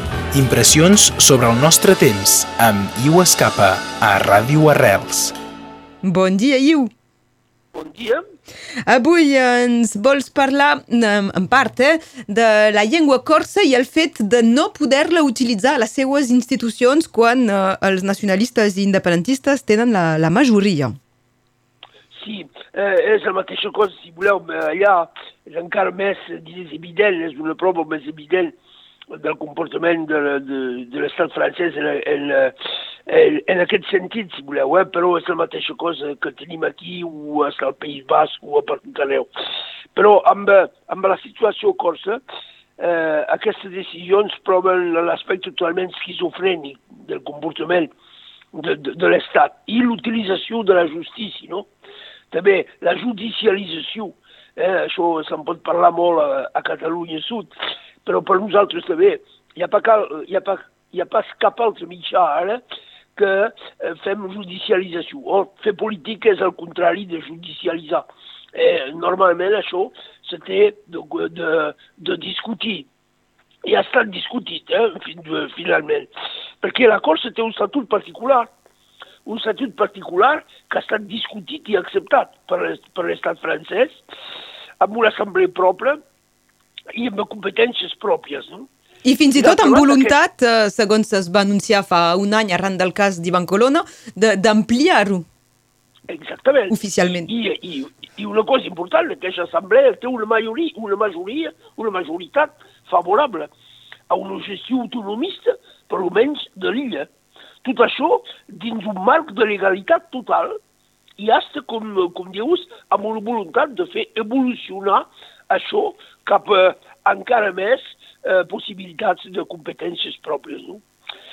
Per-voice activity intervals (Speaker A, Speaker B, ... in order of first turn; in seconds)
Speaker A: 0.3-5.3
Speaker B: 6.0-6.9, 8.9-21.0, 89.0-95.3, 96.7-97.3
Speaker C: 7.7-8.2, 22.1-28.5, 29.1-32.5, 33.1-39.3, 40.0-42.2, 42.8-47.9, 48.5-51.7, 52.3-62.6, 63.1-72.9, 73.7-76.1, 76.6-78.5, 79.2-84.0, 84.8-86.0, 86.9-88.7, 89.3-90.2, 96.1-103.5, 104.1-107.1, 107.6-110.6, 111.2-120.8